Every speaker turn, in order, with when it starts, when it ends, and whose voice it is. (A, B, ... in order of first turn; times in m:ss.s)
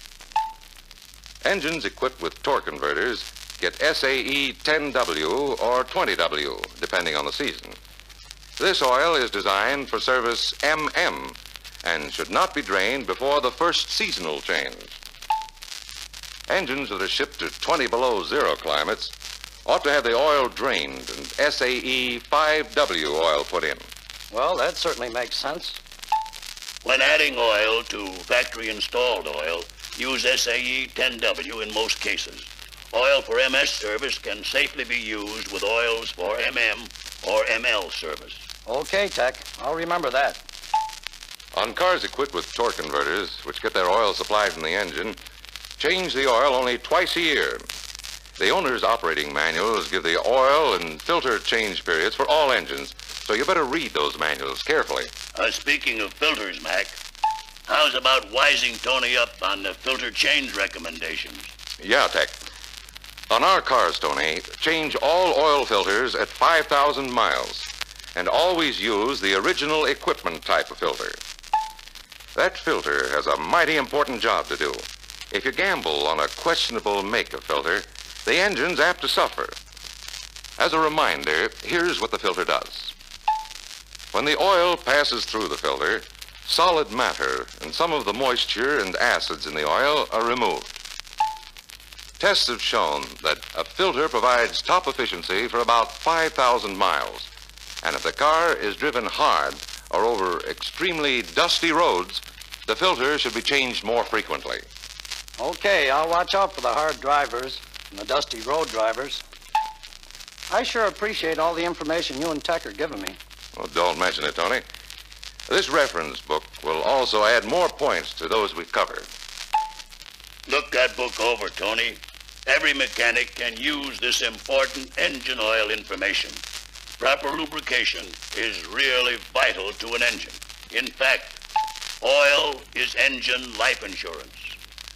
0:01.4-0:07.8 A
0:08.6-0:15.0 A
0:16.5-0:23.8 A
0:24.3-0:25.8 B
0:26.8-0:38.4 C
0:38.6-0:40.4 B
0:41.5-0:45.2 A
0:45.8-0:47.6 A
0:48.4-0:55.1 A
0:55.3-0:57.0 C
0:57.7-1:01.5 C
1:01.8-1:02.3 A
1:03.3-1:11.2 A
1:12.3-1:19.6 A
1:20.6-1:22.9 A
1:24.1-1:30.8 A
1:32.2-1:37.3 A
1:37.8-1:44.6 A
1:45.4-1:49.2 B
1:50.5-1:53.2 B
1:53.6-1:54.6 A
1:55.5-1:59.1 A
2:00.5-2:06.4 C
2:07.0-2:11.4 C
2:12.0-2:14.6 C